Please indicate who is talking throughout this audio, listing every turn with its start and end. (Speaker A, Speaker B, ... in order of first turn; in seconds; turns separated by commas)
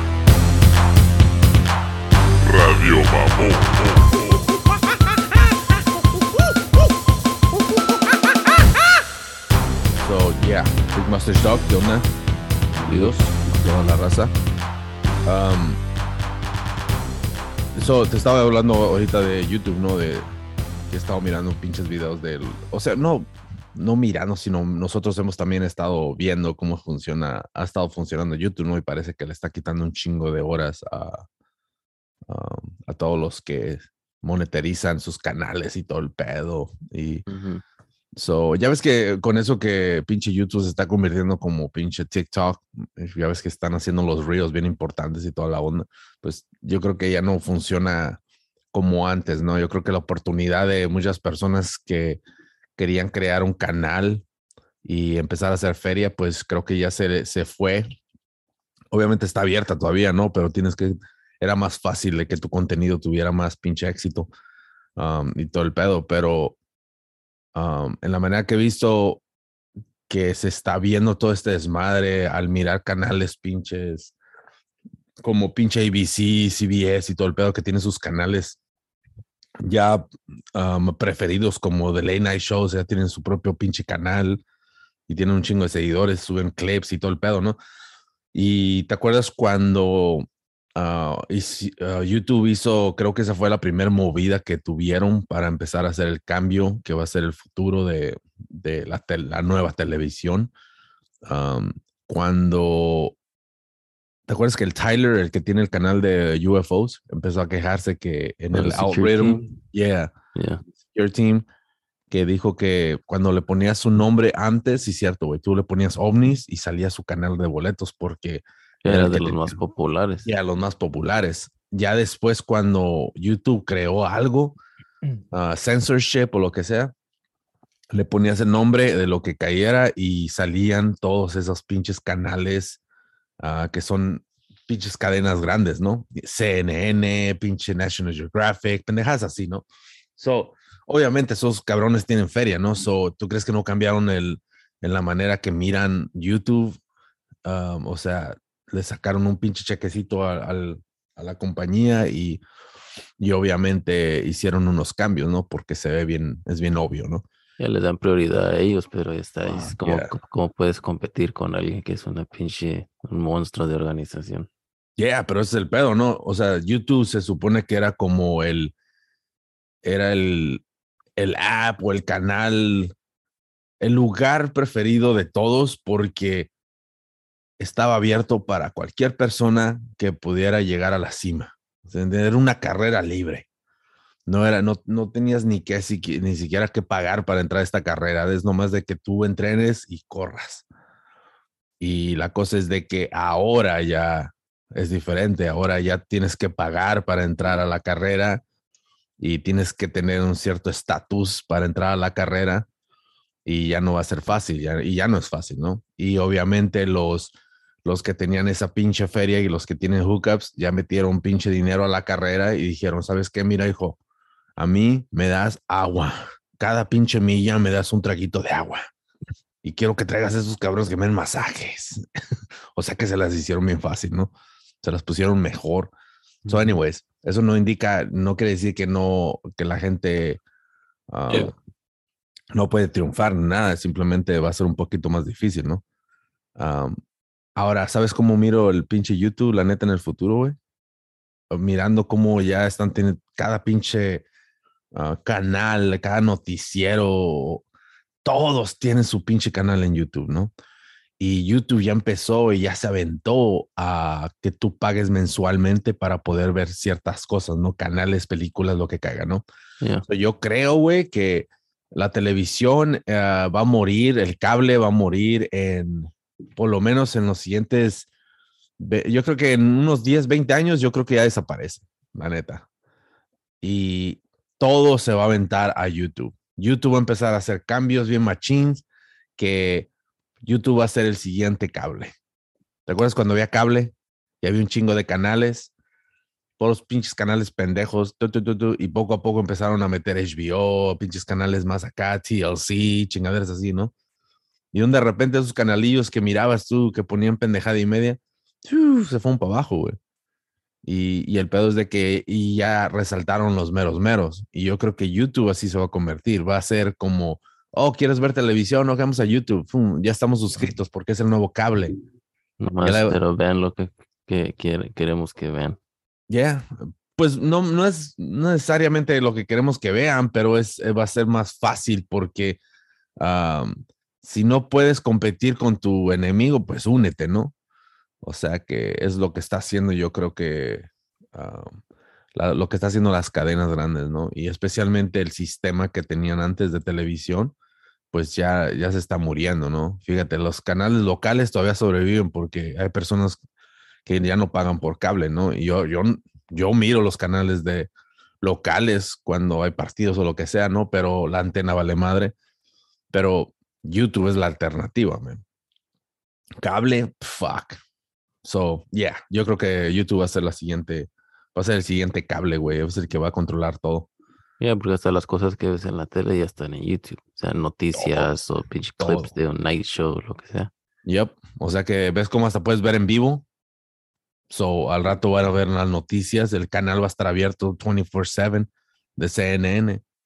Speaker A: 2.5-4.4, Speaker B: 10.0-12.1, Speaker B: 12.8-14.3, Speaker C: 12.8-13.2, Speaker B: 15.2-15.8, Speaker B: 17.8-20.3, Speaker B: 20.9-31.2, Speaker B: 32.3-37.3, Speaker C: 37.3-37.6, Speaker B: 38.2-48.2, Speaker B: 48.7-52.2, Speaker B: 52.8-54.2, Speaker B: 54.8-57.9, Speaker B: 58.9-64.3, Speaker B: 65.0-66.6, Speaker B: 67.5-69.2, Speaker B: 70.1-74.1, Speaker B: 75.2-78.6, Speaker B: 79.6-84.4, Speaker B: 85.1-87.6, Speaker B: 88.3-100.5, Speaker B: 101.2-103.2, Speaker B: 104.3-110.1, Speaker C: 108.5-109.6, Speaker C: 110.3-110.6, Speaker B: 110.9-111.5, Speaker B: 112.1-119.6, Speaker C: 118.8-120.3, Speaker B: 120.2-124.6, Speaker B: 125.3-126.9, Speaker B: 127.9-132.8, Speaker B: 133.4-139.7, Speaker B: 140.2-146.8, Speaker B: 147.4-152.4, Speaker B: 153.2-157.3, Speaker C: 157.6-164.5, Speaker B: 159.4-160.1, Speaker B: 165.0-168.7, Speaker B: 169.8-170.6, Speaker B: 171.2-172.9, Speaker B: 173.8-176.5, Speaker B: 177.6-183.5, Speaker B: 184.3-190.7, Speaker B: 191.8-198.4, Speaker B: 199.2-202.7, Speaker B: 203.5-207.3, Speaker B: 207.8-214.0, Speaker B: 214.6-218.8, Speaker B: 219.6-222.1, Speaker B: 222.7-225.9, Speaker C: 226.4-226.8, Speaker B: 226.5-230.4, Speaker B: 231.1-231.5, Speaker B: 232.5-235.8, Speaker B: 236.6-236.9, Speaker B: 237.6-240.6, Speaker B: 241.5-244.3, Speaker B: 244.9-247.6, Speaker B: 248.2-250.5, Speaker B: 251.2-259.4, Speaker C: 259.8-260.1, Speaker B: 260.1-268.1, Speaker B: 268.8-272.7, Speaker B: 273.6-278.9, Speaker B: 279.4-279.9, Speaker B: 280.4-282.1, Speaker B: 282.9-285.7, Speaker B: 286.6-293.9, Speaker B: 294.7-300.0, Speaker B: 300.8-311.9, Speaker C: 312.6-315.8, Speaker B: 312.8-313.2, Speaker B: 316.3-322.6, Speaker B: 323.2-327.5, Speaker B: 328.2-331.8, Speaker B: 332.3-337.6, Speaker B: 338.1-343.4, Speaker B: 344.1-347.9, Speaker B: 348.4-352.4, Speaker B: 353.1-355.4, Speaker B: 356.6-357.8, Speaker B: 358.4-364.1, Speaker C: 364.6-370.7, Speaker B: 367.9-368.3, Speaker B: 369.0-369.3, Speaker B: 371.1-373.5, Speaker B: 374.5-380.0